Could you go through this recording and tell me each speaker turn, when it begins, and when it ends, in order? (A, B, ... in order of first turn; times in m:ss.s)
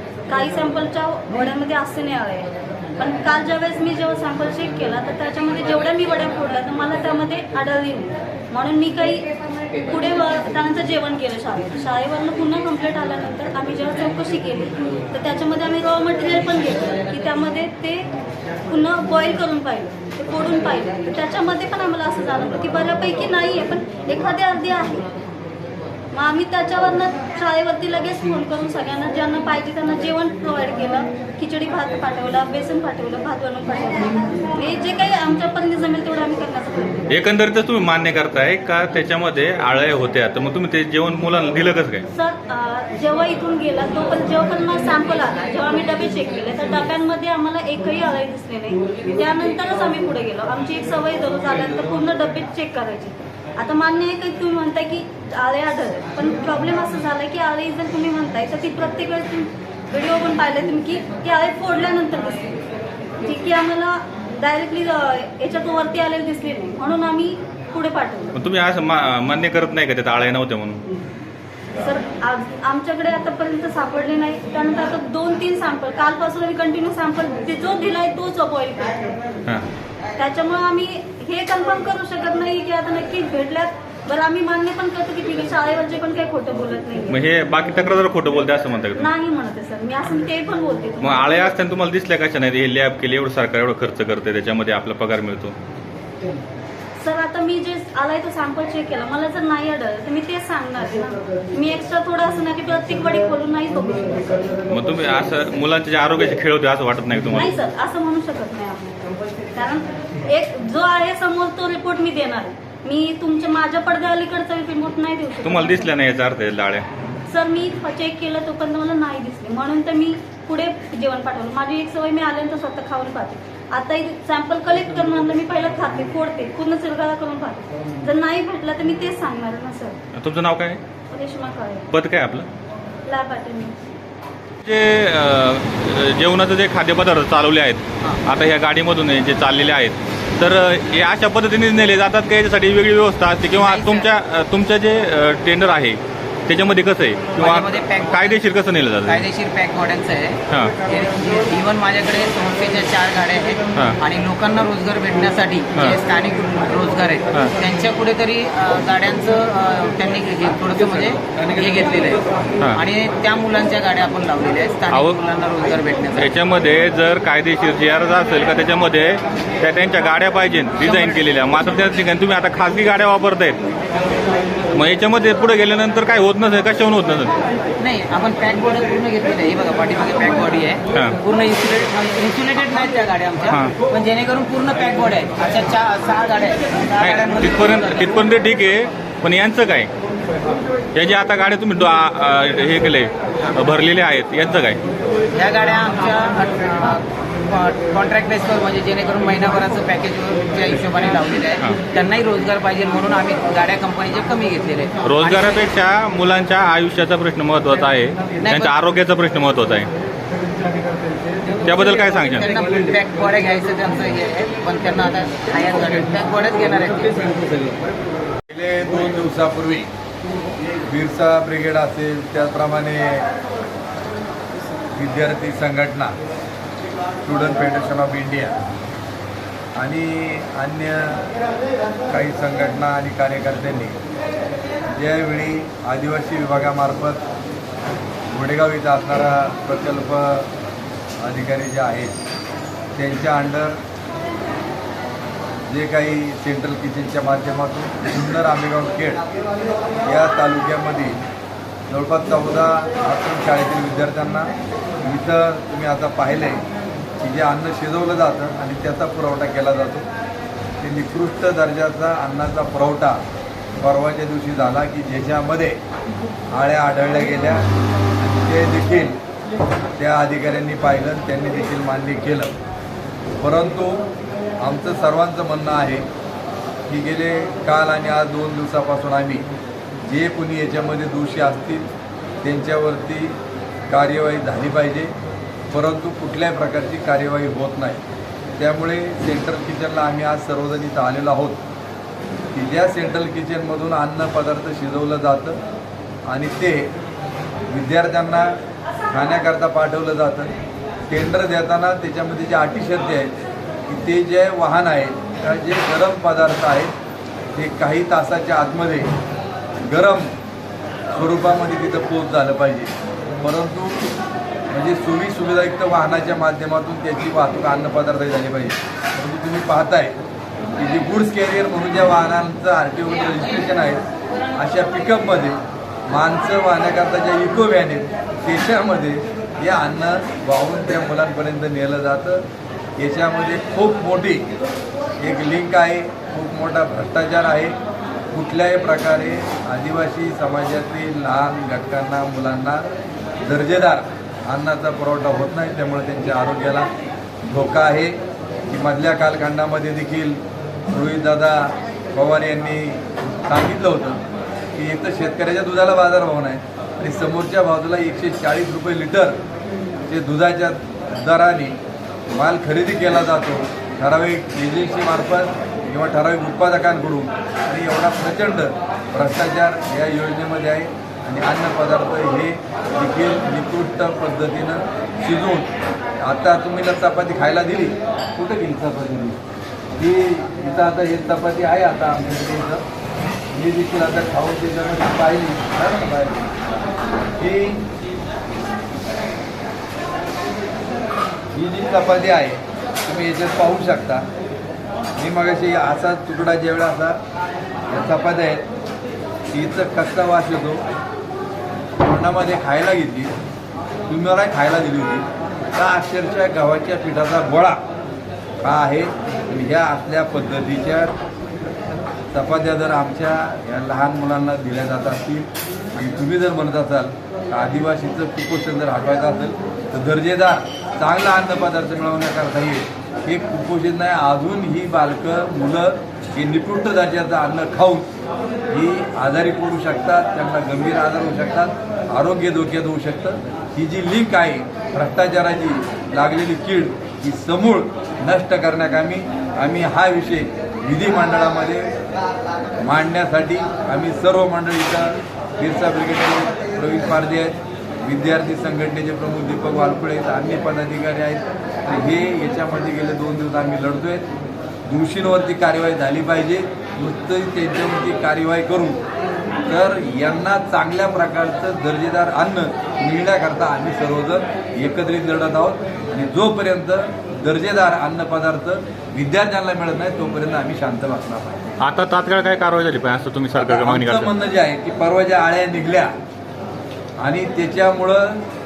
0:00.3-0:09.3 A
0:09.9-0:18.1 A
0:18.6-0:25.1 A
0:26.1-0:37.1 A
0:37.1-0:42.1 B
0:42.1-1:02.6 A
1:03.2-1:08.4 A
1:08.4-1:10.8 B
1:11.8-1:19.1 A
1:20.2-1:27.2 A
1:27.1-1:29.1 B
1:29.0-1:31.6 A
1:31.0-1:35.6 B
1:37.0-1:44.6 A
1:44.7-1:47.5 B
1:47.4-1:55.9 A
1:55.4-1:56.8 B
1:57.3-2:10.0 A
2:10.1-2:10.8 B
2:11.1-2:11.9 A
2:11.9-2:12.5 B
2:13.0-2:13.8 A
2:14.6-2:29.2 B
2:23.6-2:24.1 C
2:27.4-2:28.5 C
2:29.1-2:46.3 C
2:30.5-2:30.8 B
2:44.9-2:45.2 B
2:46.1-2:53.6 B
2:50.9-2:51.2 C
2:54.7-2:57.4 B
2:57.8-3:08.2 C
3:00.9-3:01.2 B
3:03.5-3:03.8 B
3:07.0-3:09.9 B
3:10.9-3:14.8 B
3:15.3-3:25.7 C
3:25.0-3:29.9 B
3:28.4-3:28.8 C
3:31.6-3:32.5 B
3:31.9-3:37.7 C
3:38.5-3:39.9 D
3:40.9-3:43.3 D
3:45.0-3:46.1 D
3:47.2-3:48.6 D
3:49.8-3:51.3 D
3:52.1-3:54.0 D
3:54.9-3:57.2 D
3:58.3-4:00.5 D
4:01.2-4:02.2 D
4:03.0-4:03.8 D
4:05.7-4:09.2 D
4:10.1-4:11.2 D
4:11.9-4:14.5 D
4:15.0-4:16.6 D
4:17.2-4:20.0 D
4:20.8-4:23.2 D
4:23.8-4:25.8 D
4:26.5-4:27.7 D
4:28.2-4:29.2 D
4:30.0-4:32.6 D
4:33.4-4:34.1 D
4:34.6-4:36.1 D
4:36.9-4:39.5 D
4:40.0-4:41.9 D
4:42.4-4:43.4 D
4:43.9-4:45.1 D
4:45.7-4:48.0 D
4:48.6-4:51.6 D
4:52.5-4:55.6 D
4:56.3-4:56.9 D
4:57.7-4:58.6 D
4:59.1-5:00.5 D
5:01.1-5:03.3 D
5:03.9-5:06.9 D
5:07.6-5:09.1 D
5:09.8-5:10.3 D
5:11.1-5:14.0 D
5:14.7-5:20.2 D
5:20.7-5:32.4 D
5:33.0-5:34.5 D
5:35.2-5:37.8 D
5:38.3-5:42.9 D
5:43.4-5:46.9 D
5:47.4-5:48.2 D
5:48.7-5:54.2 D
5:54.8-5:59.4 D
6:00.1-6:01.8 D
6:02.3-6:15.7 D
6:16.2-6:19.4 D
6:20.0-6:22.8 D
6:23.5-6:26.6 D
6:27.4-6:27.9 D
6:31.5-6:34.3 D
6:35.2-6:37.2 D
6:37.9-6:38.7 D
6:39.5-6:40.8 D
6:42.0-6:43.3 D
6:44.1-6:47.8 D
6:48.6-6:51.1 D
6:52.3-7:08.1 D
7:08.7-7:21.9 D
7:22.8-7:34.3 D
7:34.9-7:39.0 D
7:39.7-7:51.7 D
7:51.8-7:54.4 B
7:53.6-7:56.1 D
7:57.2-7:58.4 D